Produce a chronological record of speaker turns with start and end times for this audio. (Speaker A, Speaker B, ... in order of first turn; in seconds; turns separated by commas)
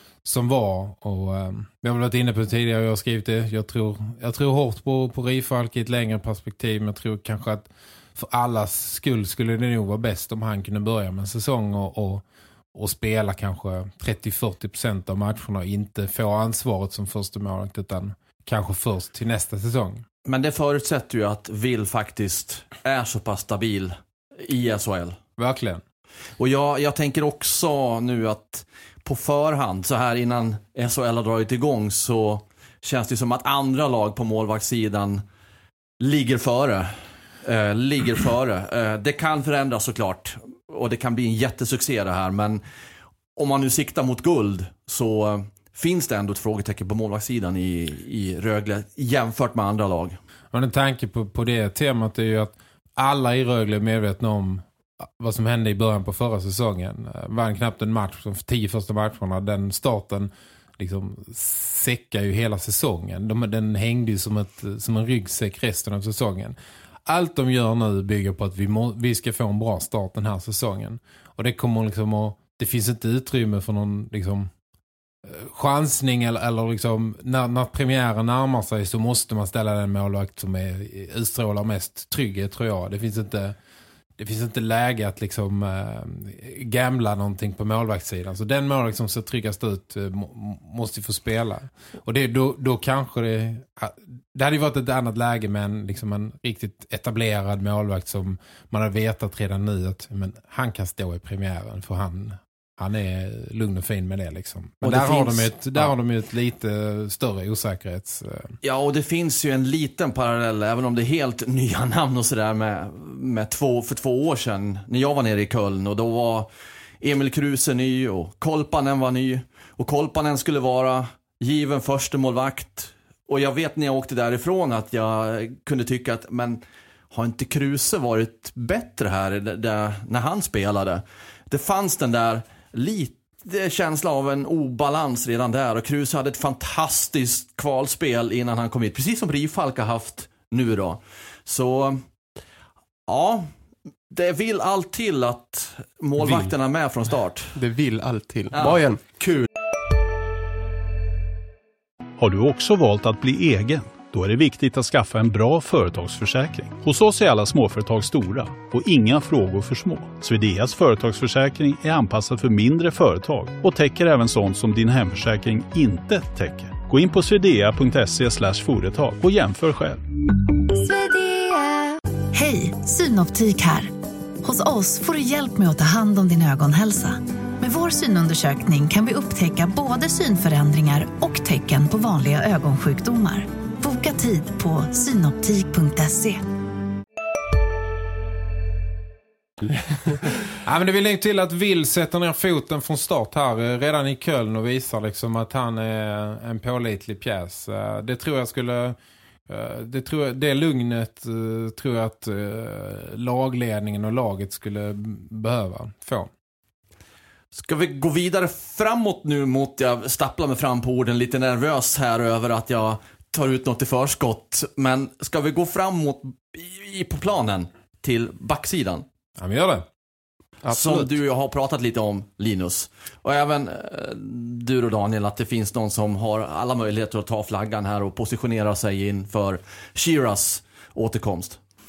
Speaker A: 0.2-12.2, Speaker A: 12.7-20.1, Speaker B: 20.2-25.2, Speaker A: 25.4-25.8, Speaker B: 26.4-35.2, Speaker B: 36.0-42.6, Speaker B: 43.4-50.2, Speaker A: 50.5-74.5, Speaker A: 75.2-83.6, Speaker A: 84.2-108.6, Speaker B: 104.8-105.9, Speaker B: 108.6-116.5, Speaker B: 117.0-142.0, Speaker B: 143.1-143.5, Speaker B: 144.1-147.6, Speaker C: 147.6-149.0, Speaker B: 148.5-149.5, Speaker D: 152.2-170.0, Speaker E: 170.7-186.5, Speaker A: 190.6-199.0, Speaker A: 199.5-206.3, Speaker B: 207.5-219.1, Speaker A: 219.4-219.9, Speaker C: 220.6-221.1, Speaker B: 220.7-231.6